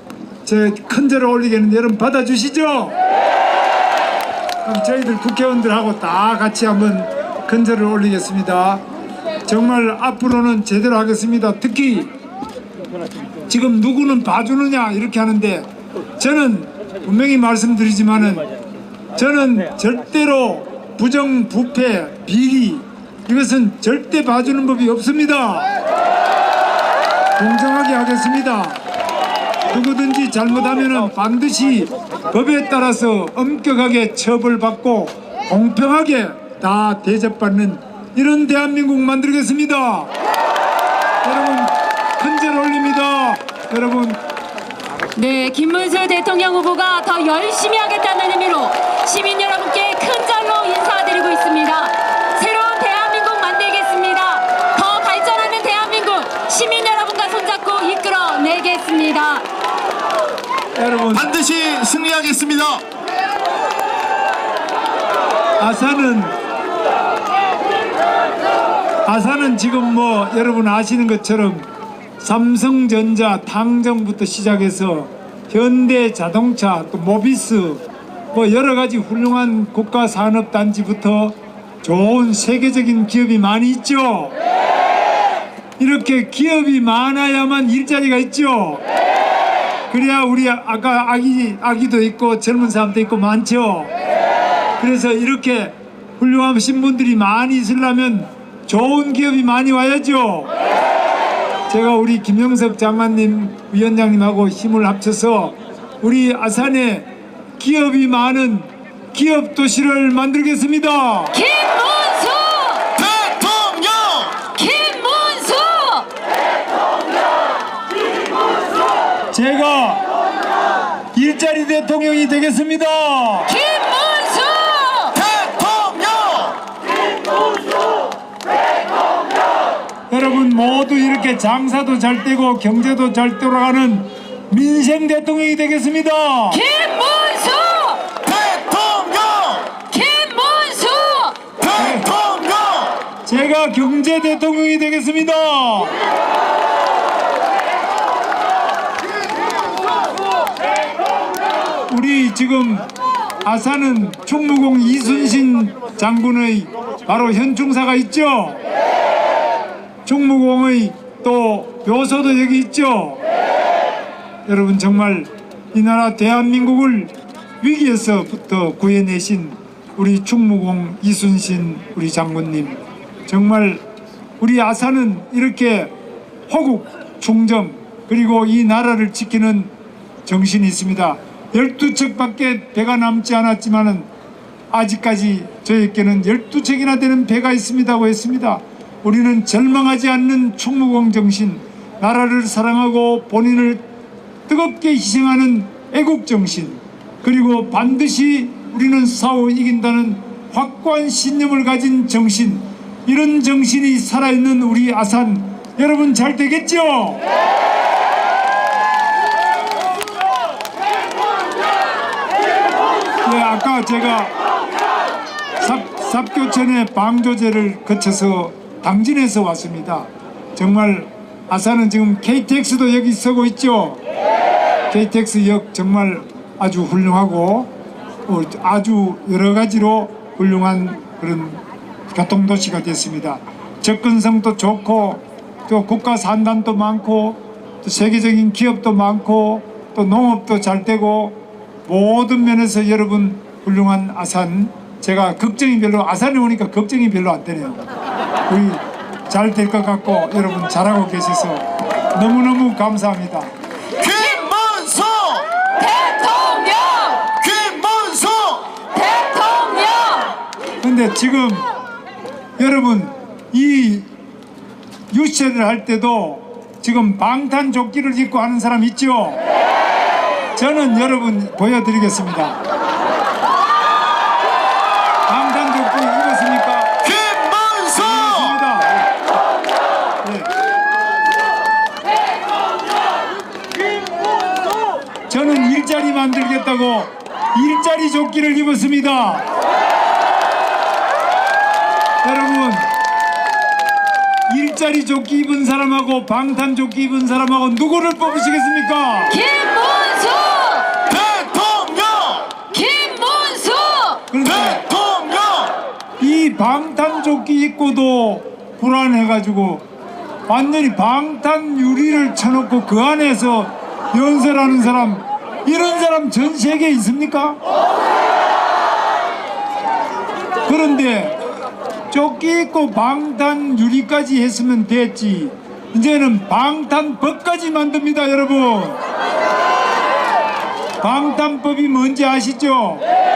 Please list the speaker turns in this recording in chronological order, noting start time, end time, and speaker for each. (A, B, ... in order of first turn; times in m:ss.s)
0:00.4-0:02.9 A
0:04.6-0:08.8 A
0:09.4-0:12.1 A
0:13.5-0:15.7 A
0:16.2-0:18.4 A
0:19.1-0:25.7 A
0:27.4-0:28.8 A
0:29.7-0:40.1 A
0:41.2-0:44.2 A
0:45.2-0:59.4 B
1:00.8-1:01.3 A
1:01.1-1:02.8 C
1:05.6-1:06.3 A
1:09.0-1:11.7 A
1:12.2-1:24.3 A
1:25.8-1:28.8 A
1:29.9-1:33.9 A
1:34.8-1:40.5 A
1:41.7-1:47.1 A
1:47.6-1:51.4 A
1:51.3-1:52.8 B
1:53.0-1:54.4 C
1:54.5-1:56.1 B
1:59.3-2:00.0 A
2:01.1-2:03.5 A
2:03.5-2:05.2 B
2:05.2-2:06.6 C
2:10.1-2:16.6 A
2:16.5-2:18.0 B
2:18.2-2:19.7 C
2:19.8-2:21.4 B
2:21.6-2:23.0 C
2:21.6-2:22.1 A
2:23.2-2:25.9 A
2:31.9-2:32.9 A
2:33.4-2:38.6 A
2:40.0-2:43.2 A
2:44.4-2:53.8 A
2:54.4-2:55.9 A
2:56.5-2:59.7 A
3:00.2-3:04.1 A
3:04.7-3:13.8 A
3:14.5-3:27.2 A
3:33.2-3:34.3 A
3:35.6-3:44.0 A
3:44.9-3:47.7 A
3:48.2-4:07.8 A
4:08.5-4:13.5 A
4:14.0-4:15.5 C
4:15.8-4:17.3 B
4:17.3-4:18.8 C
4:18.9-4:20.4 B
4:20.8-4:21.7 A
4:22.6-4:24.1 A
4:25.1-4:29.4 A
4:30.6-4:32.6 A
4:35.3-4:37.0 A
4:37.0-4:38.4 C
4:38.0-4:39.1 A
4:40.2-4:40.5 A
4:45.3-4:49.4 A
4:52.2-4:52.9 A
4:54.5-4:59.4 A
4:59.3-5:00.9 B
5:01.1-5:02.5 C
5:02.7-5:04.2 B
5:04.3-5:04.8 A
5:04.5-5:05.7 C
5:06.2-5:09.8 A
5:10.5-5:17.6 A
5:20.6-5:21.5 A
5:22.1-5:29.0 A
5:31.0-5:33.0 A